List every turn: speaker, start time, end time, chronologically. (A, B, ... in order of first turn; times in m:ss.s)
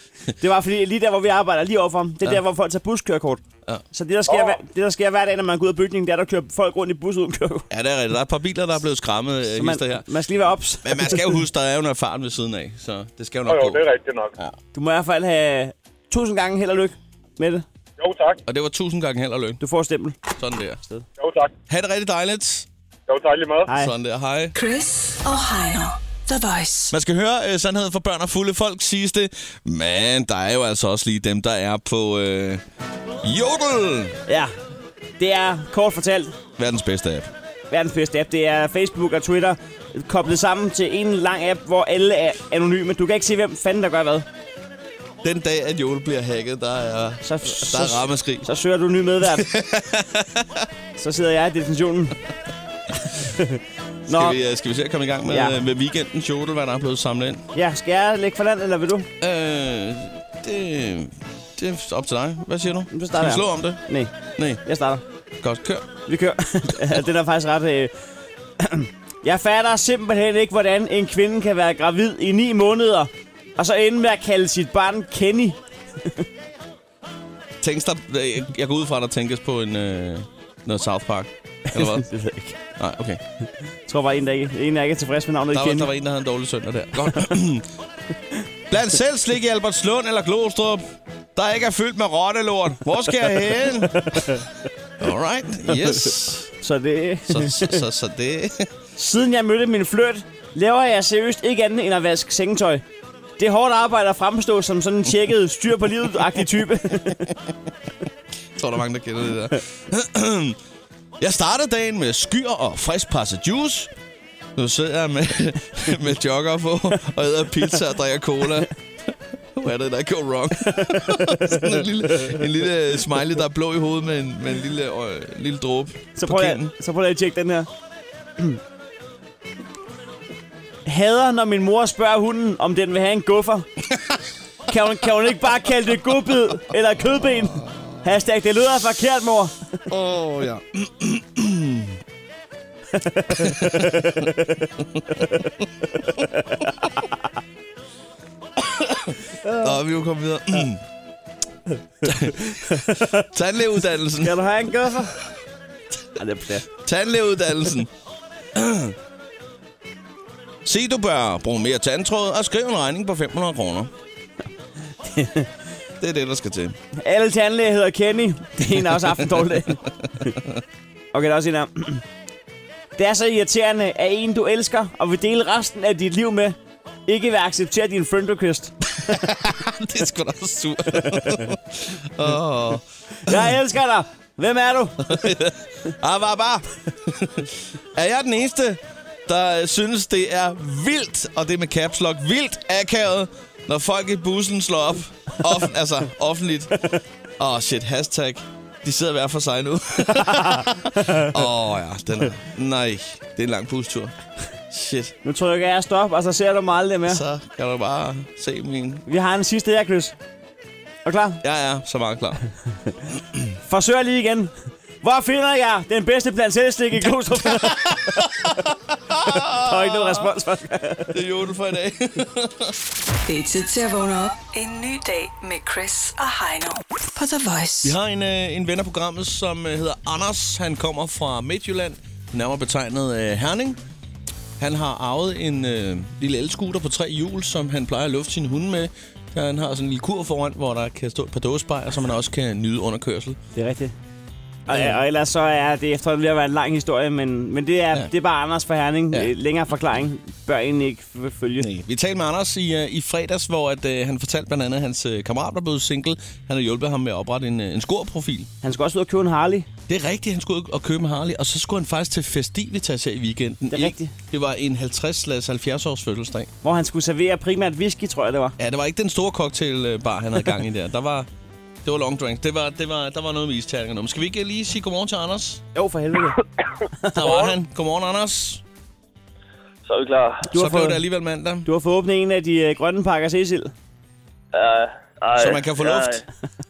0:00.4-0:07.7 A
0:04.3-0:04.6 B
0:07.7-0:10.0 C
0:09.5-0:11.2 A
0:10.8-0:13.8 C
0:13.4-0:14.3 B
0:14.7-0:17.6 A
0:18.0-0:18.4 B
0:18.5-0:19.6 C
0:19.6-0:20.2 A
0:20.3-0:20.8 C
0:21.2-0:21.5 B
0:21.7-0:22.7 C
0:23.1-0:23.7 B
0:23.7-0:23.9 A
0:23.7-0:24.5 C
0:24.6-0:26.9 D
0:26.9-0:32.6 C
0:33.2-0:34.2 C
0:34.3-0:34.5 A
0:35.2-0:36.4 A
0:36.6-0:37.3 C
0:37.7-0:44.3 A
0:45.2-0:48.5 C
0:47.2-0:49.5 A
0:49.3-0:50.7 C
0:51.0-0:52.2 A
0:53.2-0:54.4 A
0:54.1-0:57.4 C
0:55.3-0:55.6 A
0:57.5-0:59.1 A
0:59.2-1:03.8 C
1:02.9-1:05.0 A
1:04.4-1:04.6 C
1:05.4-1:05.9 C
1:06.1-1:07.9 A
1:08.6-1:16.3 A
1:17.6-1:22.1 C
1:21.7-1:22.6 A
1:22.8-1:23.2 C
1:23.9-1:25.9 A
1:25.5-1:27.7 C
1:28.7-1:30.8 C
1:31.4-1:34.4 C
1:33.4-1:34.4 A
1:35.0-1:36.5 C
1:35.7-1:37.8 A
1:37.3-1:38.7 C
1:39.0-1:42.8 A
1:43.4-1:47.3 A
1:48.6-1:50.6 C
1:51.2-1:53.9 C
1:54.6-1:58.8 C
1:59.6-2:06.7 C
2:01.0-2:01.7 A
2:06.2-2:07.7 A
2:10.9-2:13.7 A
2:14.7-2:19.8 A
2:17.6-2:17.9 C
2:19.9-2:22.0 C
2:23.0-2:24.5 A
2:23.4-2:24.3 C
2:25.0-2:25.5 C
2:28.6-2:30.8 C
2:29.4-2:29.7 A
2:32.0-2:34.4 C
2:32.4-2:33.3 A
2:34.2-2:35.2 A
2:36.2-2:36.7 A
2:36.8-2:37.9 C
2:38.6-2:39.0 C
2:40.6-2:43.9 C
2:45.0-2:45.5 A
2:46.0-2:46.8 C
2:47.0-2:49.8 A
2:48.7-2:49.2 C
2:50.2-2:50.6 C
2:51.1-2:52.0 A
2:53.0-2:58.8 A
2:59.0-3:03.5 C
3:03.2-3:05.1 A
3:05.1-3:24.2 C
3:20.2-3:21.3 A
3:24.7-3:25.2 C
3:25.2-3:27.2 A
3:27.1-3:29.0 C
3:29.1-3:30.2 A
3:31.0-3:31.4 A
3:31.4-3:32.4 C
3:33.6-3:38.3 A
3:37.5-3:40.2 C
3:39.6-3:41.1 A
3:41.1-3:42.8 C
3:43.3-3:48.0 D
3:47.8-3:53.8 C
3:54.6-4:03.4 C
4:03.6-4:03.9 A
4:04.7-4:11.7 A
4:04.7-4:05.0 C
4:11.6-4:18.5 C
4:18.6-4:19.7 A
4:19.9-4:26.5 C
4:23.7-4:24.1 A
4:26.6-4:28.6 A
4:28.6-4:31.3 C
4:31.8-4:35.6 C
4:35.8-4:36.4 A
4:37.2-4:38.6 C
4:37.2-4:37.6 E
4:39.8-4:40.5 E
4:40.5-4:41.1 A
4:40.5-4:41.7 C
4:41.6-4:43.7 A
4:44.5-4:46.2 E
4:45.4-4:46.3 C